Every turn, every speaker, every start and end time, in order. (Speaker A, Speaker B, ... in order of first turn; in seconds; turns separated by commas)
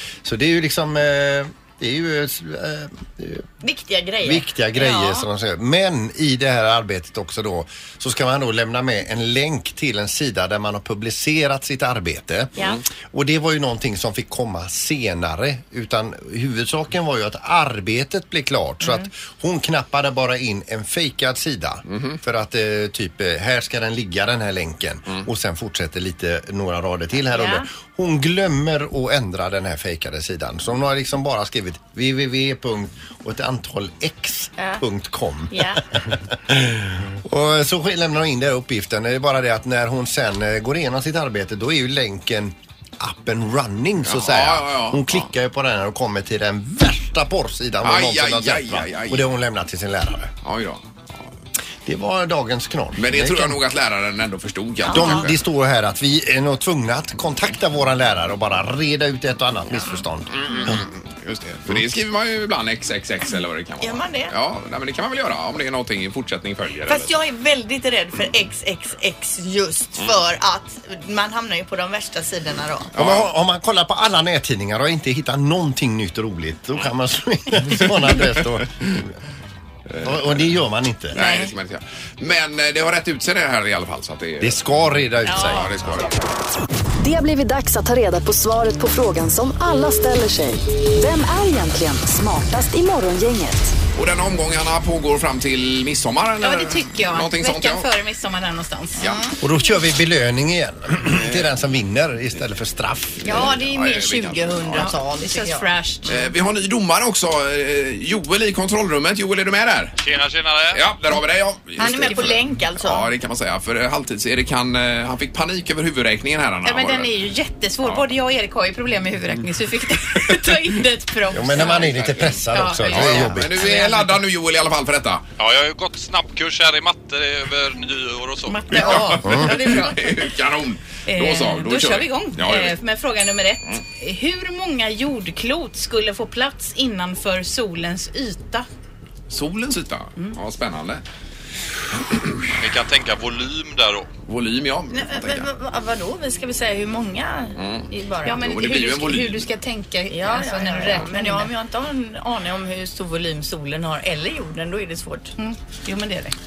Speaker A: 0.2-3.4, Speaker B: 3.6-5.2, Speaker A: 4.2-12.6, Speaker A: 13.1-50.3, Speaker C: 21.9-22.2, Speaker B: 27.3-27.6, Speaker B: 35.5-35.8, Speaker C: 44.0-45.3, Speaker C: 47.8-49.3, Speaker C: 50.4-50.9, Speaker A: 51.9-53.6, Speaker C: 53.0-55.4, Speaker B: 54.9-55.3, Speaker A: 54.9-60.8, Speaker C: 60.3-67.1, Speaker B: 63.8-64.3, Speaker B: 66.9-72.9, Speaker C: 72.9-73.3, Speaker A: 73.0-79.1, Speaker C: 77.8-78.9, Speaker C: 79.9-80.5, Speaker A: 80.0-81.2, Speaker C: 81.1-84.6, Speaker B: 81.1-81.5, Speaker A: 84.4-86.1, Speaker C: 85.4-86.1, Speaker D: 87.0-93.7, Speaker C: 93.9-97.9, Speaker E: 96.4-99.2, Speaker B: 99.0-99.3, Speaker A: 99.4-103.5, Speaker C: 101.2-101.5, Speaker C: 103.2-104.9, Speaker B: 103.2-105.7, Speaker E: 104.7-106.3, Speaker C: 106.1-110.0, Speaker F: 110.0-110.8, Speaker C: 110.7-117.1, Speaker B: 111.8-113.1, Speaker E: 111.9-112.4, Speaker E: 116.6-124.2, Speaker A: 121.3-123.7, Speaker C: 121.5-125.2, Speaker F: 125.4-128.9, Speaker E: 128.4-130.3, Speaker C: 128.7-132.8, Speaker A: 129.1-129.5, Speaker E: 131.1-138.7, Speaker C: 139.3-141.0, Speaker C: 142.1-142.4, Speaker F: 142.6-144.1, Speaker C: 144.3-145.5, Speaker B: 144.9-148.4, Speaker C: 147.6-149.5, Speaker E: 148.2-151.5, Speaker B: 150.1-155.3, Speaker E: 155.4-156.3